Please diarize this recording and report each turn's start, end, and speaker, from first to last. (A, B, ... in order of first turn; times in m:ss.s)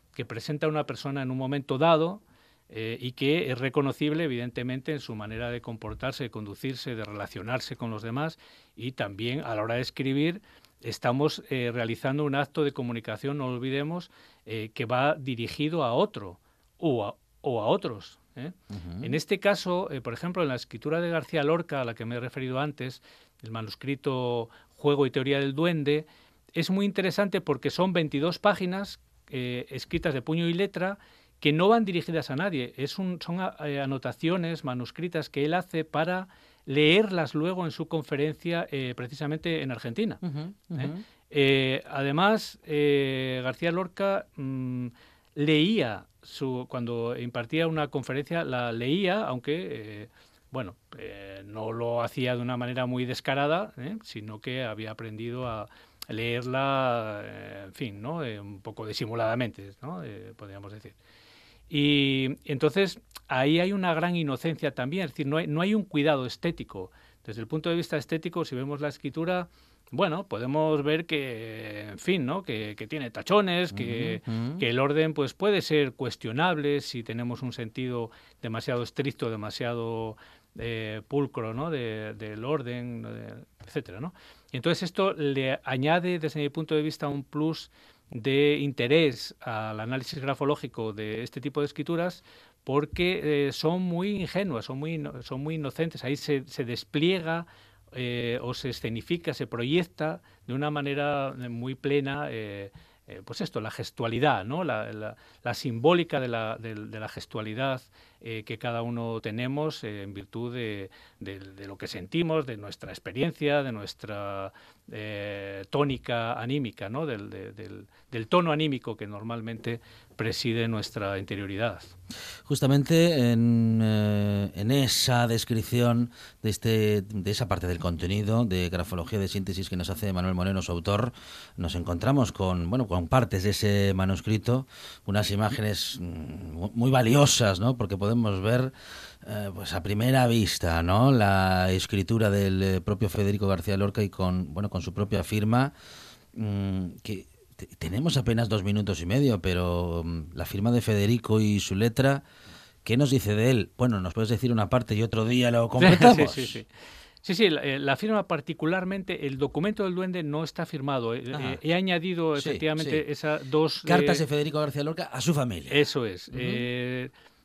0:00.1-0:40.2 A
0:18.7-0:19.2 B
0:40.2-0:41.0 B
0:40.7-1:01.0 A
1:01.7-2:01.9 A
1:13.7-1:14.6 B
2:02.4-2:25.7 B
2:26.3-2:32.2 B
2:32.8-2:36.6 B
2:35.8-2:36.7 A
2:37.2-2:44.2 A
2:41.3-2:41.6 B
2:42.4-2:43.0 B
2:43.8-2:45.8 B
2:45.7-2:47.1 A
2:46.3-2:46.6 B